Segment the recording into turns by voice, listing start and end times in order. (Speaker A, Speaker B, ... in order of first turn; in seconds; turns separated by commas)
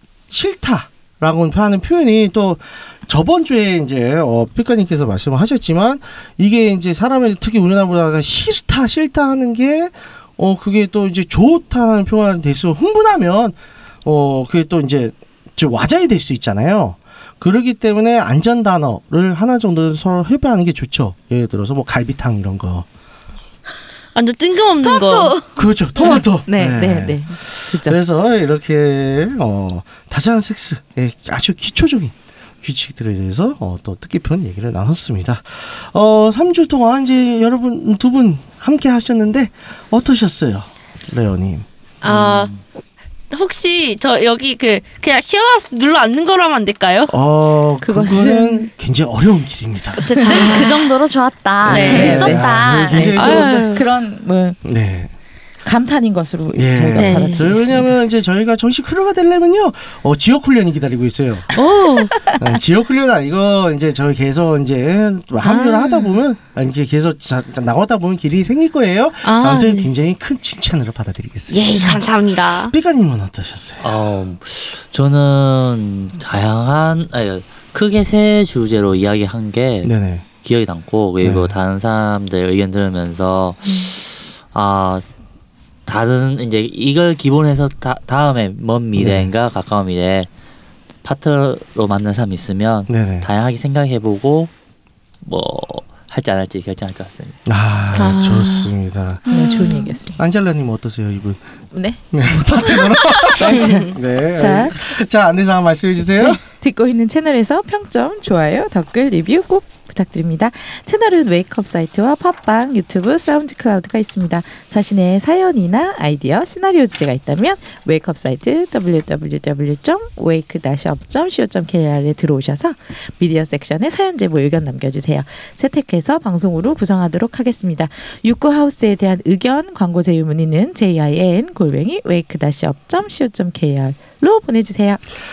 Speaker A: 0.3-22.9, Speaker B: 24.1-25.4, Speaker C: 24.8-25.5, Speaker A: 25.6-41.7, Speaker D: 26.5-28.0, Speaker B: 42.0-42.5, Speaker E: 42.0-42.6, Speaker B: 43.3-47.1, Speaker A: 47.1-50.1, Speaker D: 47.8-48.7, Speaker C: 50.0-53.1, Speaker D: 50.0-50.8, Speaker B: 50.2-50.8, Speaker A: 51.6-53.7, Speaker B: 51.6-52.5, Speaker D: 51.7-54.6, Speaker B: 53.1-53.8, Speaker A: 54.6-55.1, Speaker D: 55.6-58.0, Speaker A: 56.6-61.5, Speaker B: 57.0-57.5, Speaker B: 61.5-62.2, Speaker A: 62.4-71.8, Speaker B: 65.4-66.1, Speaker B: 69.2-69.9, Speaker B: 71.5-72.8, Speaker A: 72.5-73.9, Speaker E: 73.8-85.0, Speaker A: 79.8-80.3, Speaker A: 81.2-81.5, Speaker E: 85.9-90.3, Speaker A: 89.0-89.3, Speaker E: 91.0-94.5, Speaker A: 92.9-93.3, Speaker E: 95.2-97.4, Speaker A: 97.5-99.3, Speaker B: 98.0-98.7, Speaker C: 99.3-100.0, Speaker D: 99.3-100.2, Speaker A: 100.2-106.4, Speaker D: 101.7-102.0, Speaker D: 102.6-104.8, Speaker B: 103.4-104.0, Speaker D: 106.2-135.0